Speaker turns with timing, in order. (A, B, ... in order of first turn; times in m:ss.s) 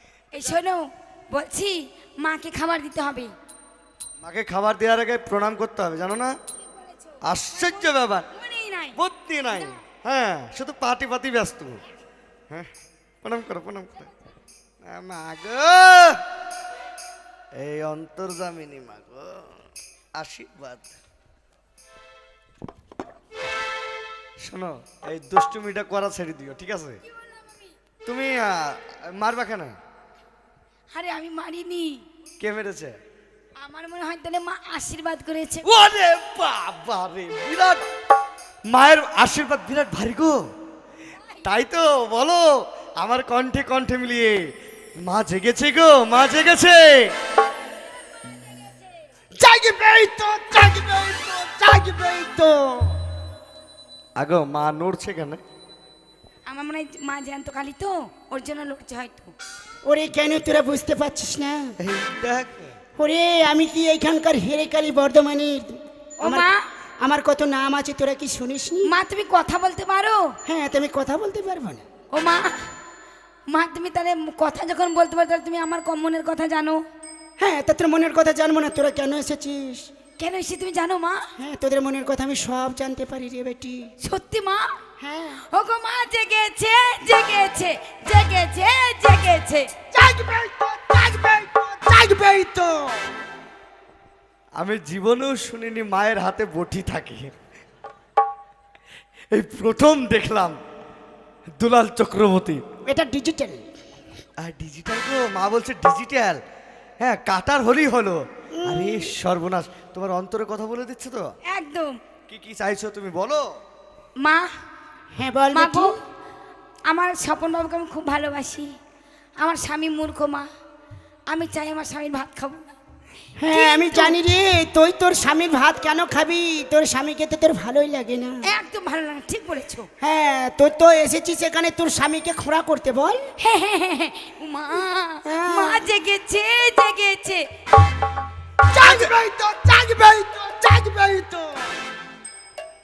0:00.3-0:03.3 A
0:04.2-0:06.3 B
0:06.6-0:09.0 A
0:07.2-0:08.3 B
0:09.0-0:11.8 B
0:13.2-0:14.1 B
0:14.9-0:16.2 B
0:17.6-0:19.5 B
0:20.2-0:20.9 B
0:24.4-0:27.0 B
0:28.1-0:29.7 B
0:30.9-0:32.0 A
0:32.4-0:32.9 B
0:33.6-0:35.7 A
0:35.6-0:37.8 B
0:38.7-0:40.4 B
0:41.4-0:42.5 B
0:43.0-0:44.4 B
0:45.0-0:47.1 B
0:49.4-0:52.9 C
0:54.2-0:55.4 B
0:56.5-0:59.3 A
0:59.9-1:01.8 C
1:01.8-1:02.8 B
1:03.0-1:06.5 C
1:06.2-1:06.6 A
1:07.0-1:08.9 C
1:08.9-1:10.2 A
1:10.5-1:11.8 C
1:12.1-1:12.6 A
1:13.5-1:16.8 A
1:17.4-1:19.9 C
1:20.2-1:21.2 A
1:21.4-1:23.9 C
1:24.0-1:24.8 A
1:25.0-1:25.4 C
1:25.5-1:29.7 A
1:29.9-1:33.1 C
1:34.6-1:37.3 B
1:39.3-1:40.6 B
1:41.6-1:42.6 B
1:42.9-1:43.6 C
1:44.4-1:46.4 B
1:47.0-1:51.3 B
1:48.6-1:49.1 C
1:51.5-1:52.0 A
1:52.3-1:53.4 B
1:55.2-1:55.9 C
1:55.5-1:55.9 A
1:56.9-1:58.7 A
1:59.4-2:00.5 A
2:01.3-2:02.7 A
2:03.4-2:08.4 C
2:03.5-2:04.2 A
2:08.5-2:09.9 A
2:10.0-2:13.2 C
2:13.4-2:17.4 A
2:15.2-2:15.9 C
2:18.7-2:21.6 C
2:18.8-2:19.1 B